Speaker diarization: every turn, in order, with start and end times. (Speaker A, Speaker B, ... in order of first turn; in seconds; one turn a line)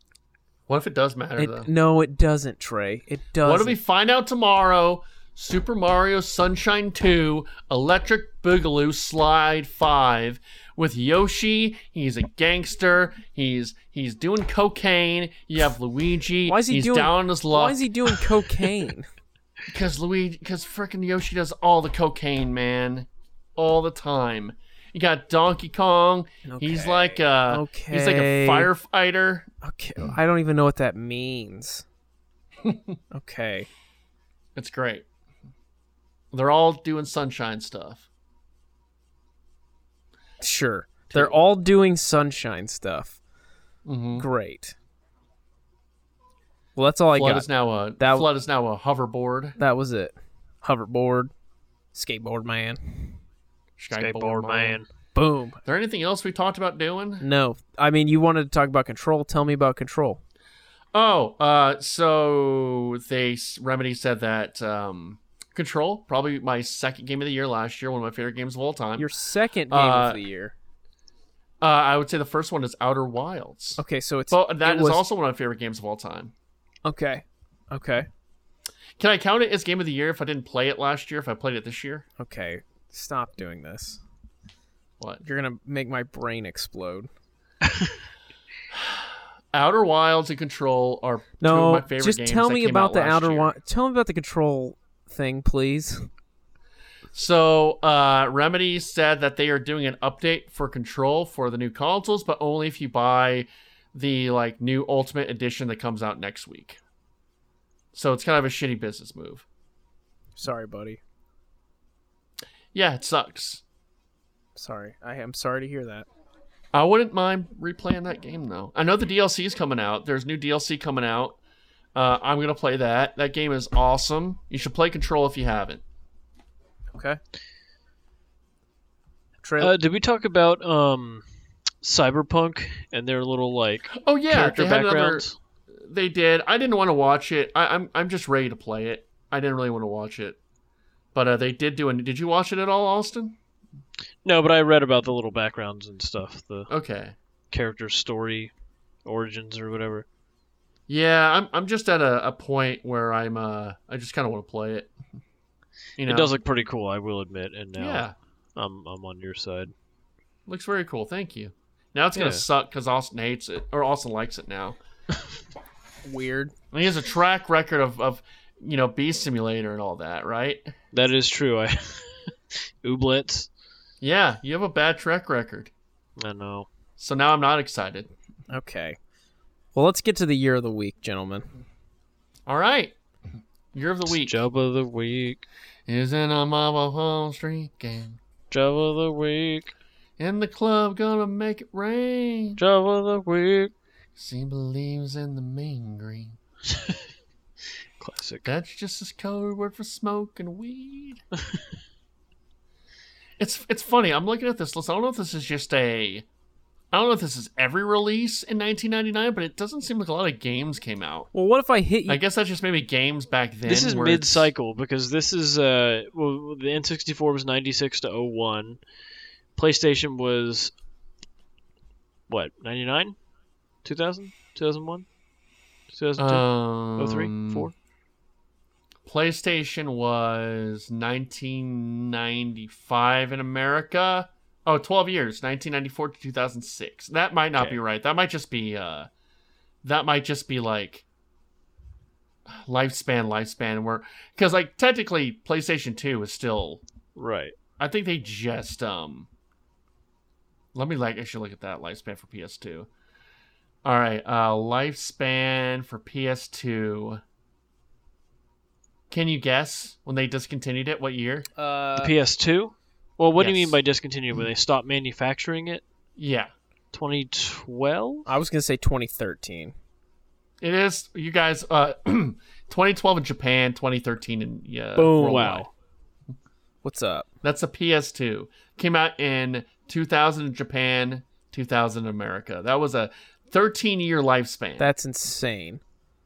Speaker A: 0.7-1.7
Speaker B: 1.4-3.8
Speaker A: 3.4-17.9
Speaker B: 16.5-19.1
Speaker A: 19.7-29.5
Speaker B: 26.4-28.7
Speaker B: 29.6-31.8
Speaker A: 32.6-32.9
Speaker B: 33.1-33.7
Speaker A: 34.5-35.0
Speaker A: 36.3-38.0
Speaker B: 40.4-43.2
Speaker A: 43.9-44.2
Speaker B: 44.1-44.7
Speaker B: 46.8-48.3
Speaker A: 47.1-49.6
Speaker B: 49.6-51.3
Speaker B: 51.9-53.2
Speaker A: 53.8-54.8
Speaker C: 53.9-54.9
Speaker B: 55.1-55.6
Speaker A: 55.6-57.2
Speaker B: 57.2-60.2
Speaker A: 60.9-69.1
Speaker B: 69.0-70.5
Speaker A: 69.7-70.2
Speaker A: 71.6-76.3
Speaker B: 73.8-75.0
Speaker B: 76.8-78.1
Speaker A: 79.0-82.0
Speaker B: 82.2-84.0
Speaker B: 85.2-87.1
Speaker A: 88.7-93.5
Speaker B: 91.4-96.1
Speaker A: 97.1-106.8
Speaker A: 107.9-109.4
Speaker B: 110.4-111.0
Speaker A: 112.7-113.6
Speaker B: 114.5-116.1
Speaker A: 116.7-121.4
Speaker A: 121.9-125.8
Speaker B: 126.9-127.2
Speaker B: 129.4-129.7
Speaker C: 129.6-131.2
Speaker C: 131.8-135.3
Speaker A: 133.9-140.4
Speaker A: 141.1-143.4
Speaker C: 144.2-146.7
Speaker A: 146.7-147.2
Speaker C: 147.5-148.5
Speaker C: 149.1-150.1
Speaker A: 150.9-154.9
Speaker A: 156.0-156.3
Speaker C: 156.0-159.7
Speaker A: 157.8-158.1
Speaker A: 160.5-164.8
Speaker C: 162.1-162.4
Speaker B: 166.0-166.5
Speaker A: 166.7-170.7
Speaker C: 170.9-173.5
Speaker A: 174.0-175.7
Speaker C: 176.2-176.7
Speaker A: 177.0-178.1
Speaker B: 178.5-179.0
Speaker B: 179.7-181.5
Speaker A: 182.5-182.9
Speaker A: 183.7-184.4
Speaker C: 184.1-185.5
Speaker A: 185.9-188.2
Speaker C: 188.5-189.7
Speaker A: 190.2-192.6
Speaker C: 192.6-193.7
Speaker A: 194.2-196.4
Speaker C: 196.7-197.0
Speaker C: 198.0-198.5
Speaker A: 198.4-201.2
Speaker A: 203.4-206.2
Speaker A: 206.9-211.3
Speaker B: 211.3-212.2
Speaker A: 212.1-214.5
Speaker C: 213.7-218.8
Speaker C: 219.6-220.7
Speaker C: 222.3-223.1
Speaker C: 223.8-225.1
Speaker C: 225.9-227.7
Speaker A: 226.2-227.7
Speaker A: 229.1-239.1
Speaker A: 239.8-241.0
Speaker A: 242.5-246.8
Speaker C: 247.2-247.5
Speaker A: 247.8-249.3
Speaker A: 250.7-252.9
Speaker A: 253.8-257.2
Speaker A: 259.1-261.5
Speaker B: 261.6-262.1
Speaker C: 262.0-265.8
Speaker A: 263.4-263.8
Speaker A: 266.2-266.5
Speaker C: 266.9-268.2
Speaker B: 268.2-269.7
Speaker A: 270.6-275.7
Speaker B: 275.0-275.7
Speaker C: 275.2-275.6
Speaker B: 276.8-277.3
Speaker A: 277.4-284.9
Speaker B: 284.8-285.8